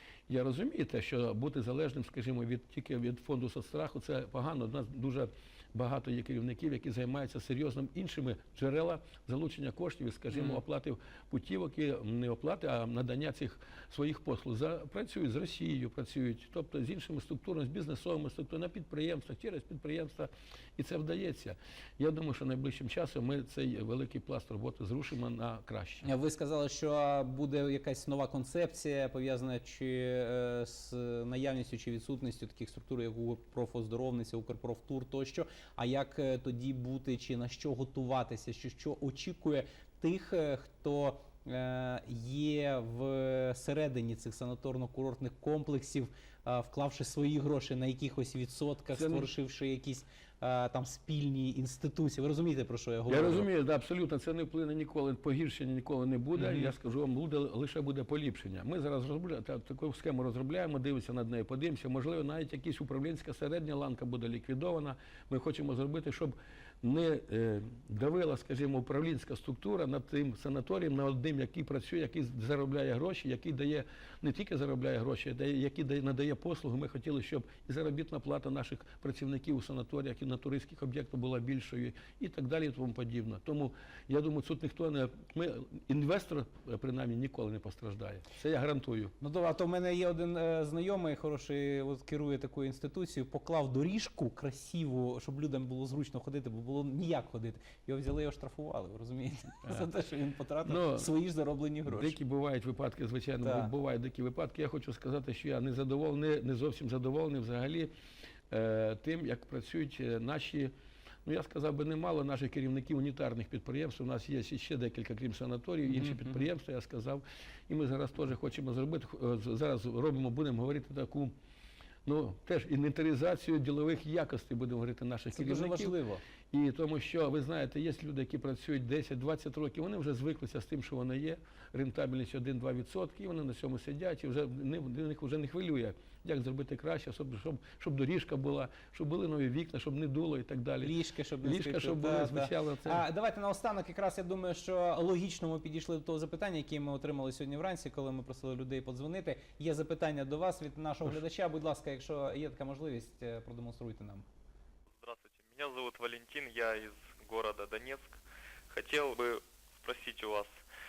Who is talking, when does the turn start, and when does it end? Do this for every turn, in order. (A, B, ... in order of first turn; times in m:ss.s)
0:00.3-0:26.1 A
0:26.0-0:53.5 B
0:48.9-0:49.3 A
0:53.1-1:29.1 A
0:56.4-0:56.7 B
1:29.2-1:42.2 B
1:40.6-1:41.1 A
1:41.8-1:47.9 A
1:43.4-1:43.7 B
1:48.5-1:50.7 A
1:51.2-2:01.3 A
2:02.0-2:05.9 A
2:05.3-2:06.2 B
2:06.5-2:23.0 A
2:20.8-2:34.2 B
2:35.0-2:38.2 C
2:38.7-2:40.6 C